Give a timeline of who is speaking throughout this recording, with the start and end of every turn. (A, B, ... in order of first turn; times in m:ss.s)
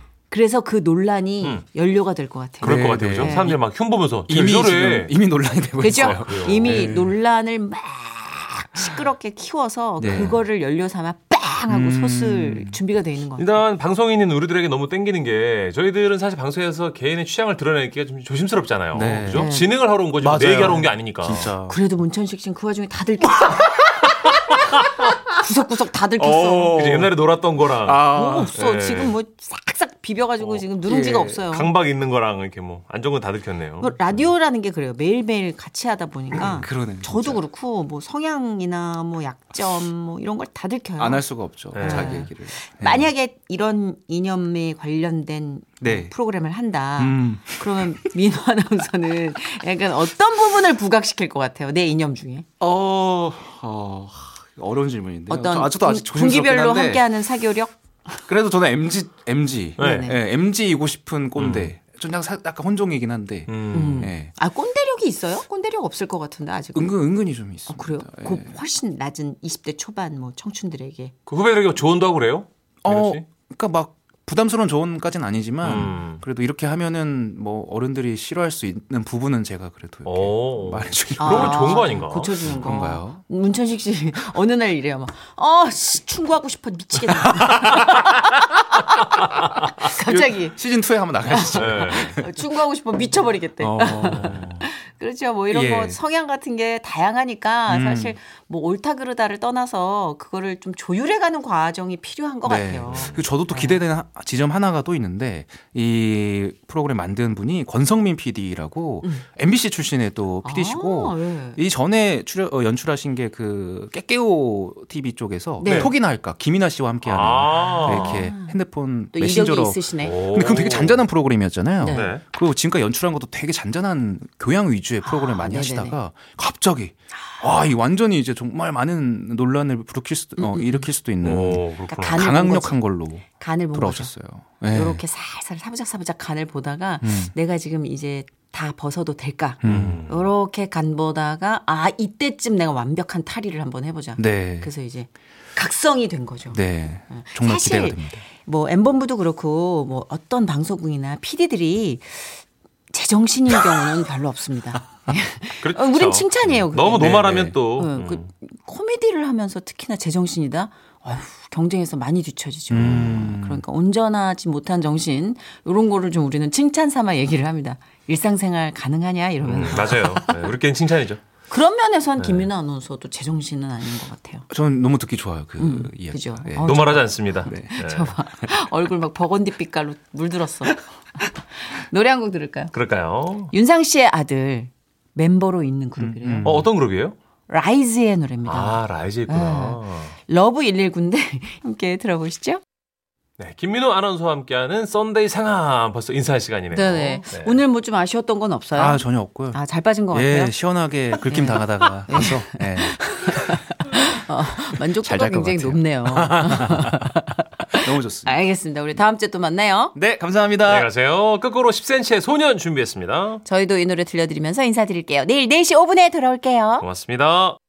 0:00.3-0:03.6 A
0:02.6-0:05.1 B
0:02.6-0:03.5 C
0:04.3-0:07.2 C
0:05.8-0:13.5 A
0:05.8-0:06.9 B
0:10.0-0:10.4 C
0:11.7-0:12.8 C
0:13.4-0:21.5 B
0:18.9-0:19.5 C
0:19.3-0:19.7 A
0:20.2-0:21.8 C
0:21.7-0:24.1 A
0:25.3-0:26.8 A
0:26.2-0:27.2 C
0:26.6-0:29.1 B
0:27.8-0:28.5 C
0:28.1-0:31.7 A
0:30.8-0:31.4 C
0:31.5-0:34.0 B
0:33.8-0:52.5 A
0:36.3-0:37.4 C
0:41.0-0:43.1 C
0:41.7-0:42.3 B
0:45.8-0:46.1 C
0:47.0-0:48.1 C
0:52.6-0:57.0 C
0:55.3-0:58.1 A
0:58.3-1:04.3 C
0:59.8-1:00.1 B
0:59.8-1:00.2 A
1:01.4-1:01.7 B
1:03.5-1:04.1 B
1:03.7-1:07.0 A
1:06.8-1:08.5 C
1:07.7-1:11.1 A
1:11.3-1:13.2 B
1:12.8-1:23.2 C
1:15.6-1:16.2 B
1:20.1-1:22.8 B
1:21.2-1:30.6 A
1:27.2-1:28.1 C
1:29.9-1:32.3 C
1:31.3-1:43.8 A
1:31.5-1:32.2 B
1:33.6-1:34.6 C
1:34.0-1:34.6 B
1:35.5-1:36.0 C
1:37.7-1:38.2 C
1:42.4-2:15.0 C
1:42.9-1:43.2 B
1:50.4-1:51.6 A
1:55.6-1:55.9 A
1:55.6-1:55.9 B
1:57.0-1:58.3 B
1:57.8-1:58.6 A
1:59.1-2:00.2 A
2:00.0-2:01.0 B
2:01.8-2:02.1 A
2:01.9-2:02.2 B
2:05.0-2:06.0 A
2:10.4-2:10.9 A
2:11.2-2:12.3 B
2:11.9-2:12.8 A
2:13.4-2:14.1 A
2:14.7-2:32.4 A
2:17.0-2:17.3 C
2:19.6-2:20.0 C
2:19.6-2:20.2 B
2:24.2-2:24.7 C
2:26.5-2:28.2 C
2:32.9-2:50.4 A
2:35.6-2:38.3 B
2:37.0-2:37.6 C
2:42.7-2:43.6 C
2:42.8-2:43.3 B
2:49.4-2:51.2 B
2:51.5-2:54.5 A
2:52.2-2:52.5 B
2:54.5-2:57.8 C
2:55.6-3:02.7 A
2:56.6-2:58.2 B
3:02.7-3:03.5 B
3:03.5-3:06.5 A
3:06.0-3:06.7 C
3:06.4-3:07.2 B
3:07.5-3:12.6 A
3:08.4-3:10.2 B
3:13.4-3:17.6 B
3:16.7-3:20.6 A
3:18.8-3:19.6 C
3:20.1-3:23.6 C
3:21.2-3:29.9 A
3:25.0-3:27.1 C
3:27.7-3:28.4 C
3:30.0-3:30.9 C
3:30.6-3:33.4 B
3:33.4-3:36.8 A
3:36.8-3:37.6 B